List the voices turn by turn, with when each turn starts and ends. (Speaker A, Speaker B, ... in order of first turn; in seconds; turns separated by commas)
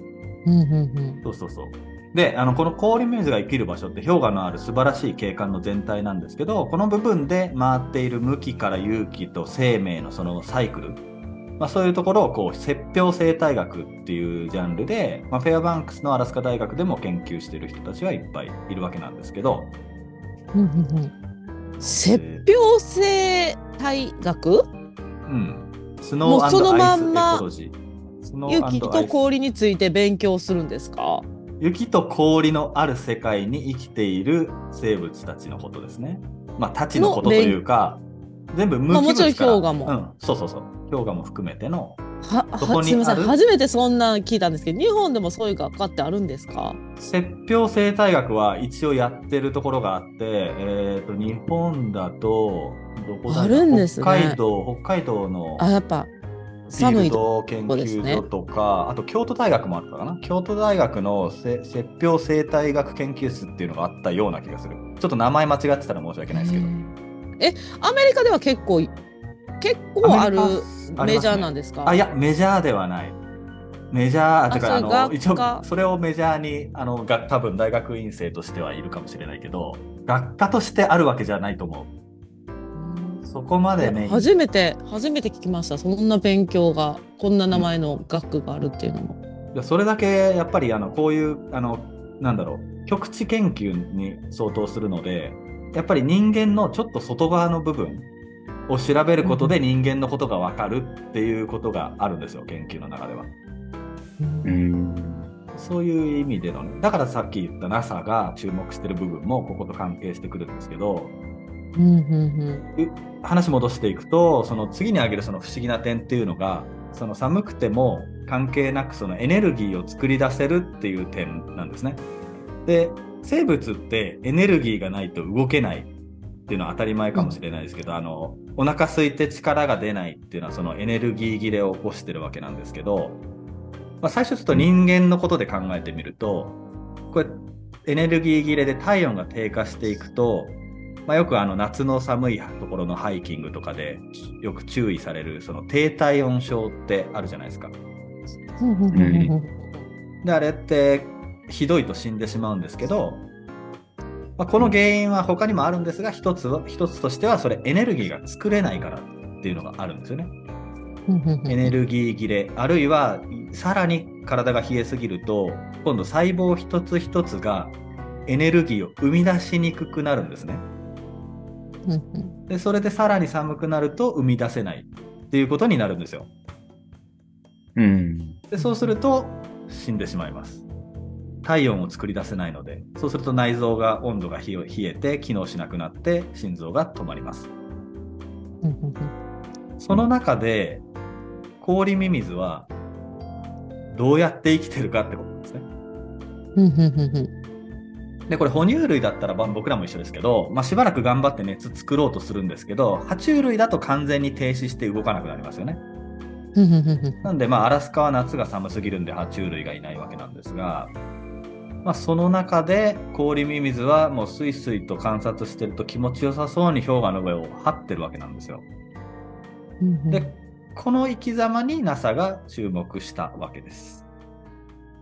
Speaker A: 0.5-1.2, Speaker B: 1.2-11.0, Speaker B: 11.6-19.7, Speaker A: 20.5-21.1, Speaker B: 21.8-22.5, Speaker A: 21.8-24.7, Speaker B: 25.2-29.2, Speaker A: 26.2-27.4, Speaker A: 28.5-31.2, Speaker B: 31.6-42.0, Speaker A: 36.9-37.6, Speaker A: 38.9-39.9, Speaker A: 42.2-46.8, Speaker B: 42.6-43.4, Speaker B: 47.0-55.7, Speaker A: 53.3-54.4, Speaker A: 55.6-56.1, Speaker A: 56.7-58.2, Speaker B: 56.7-66.7, Speaker A: 66.3-68.9, Speaker A: 69.6-72.0, Speaker B: 70.0-73.2, Speaker B: 73.9-81.9, Speaker A: 74.5-75.6, Speaker A: 82.7-83.2, Speaker B: 83.2-84.3, Speaker A: 83.8-89.2, Speaker B: 89.5-98.1, Speaker B: 98.7-103.3, Speaker A: 99.2-99.5, Speaker A: 104.2-104.6, Speaker C: 104.4-105.3, Speaker B: 105.5-111.1, Speaker A: 111.7-112.7, Speaker B: 112.7-122.0, Speaker B: 122.7-125.9, Speaker B: 126.5-133.2, Speaker B: 134.0-136.6, Speaker B: 137.1-147.7, Speaker A: 148.6-149.8, Speaker C: 148.9-149.3, Speaker B: 150.2-153.2, Speaker B: 154.4-160.3, Speaker A: 161.1-161.7, Speaker B: 161.5-170.7, Speaker A: 171.8-172.3, Speaker B: 172.5-176.3, Speaker C: 177.8-178.4, Speaker B: 178.5-180.7, Speaker A: 178.6-178.9, Speaker B: 181.4-187.5, Speaker A: 188.6-189.1, Speaker B: 189.8-190.8, Speaker B: 191.6-192.7, Speaker B: 193.9-195.7, Speaker A: 196.6-197.3, Speaker B: 198.3-205.8, Speaker A: 206.6-207.3, Speaker B: 207.2-210.9, Speaker B: 211.8-218.6, Speaker A: 219.8-220.3, Speaker B: 220.1-224.0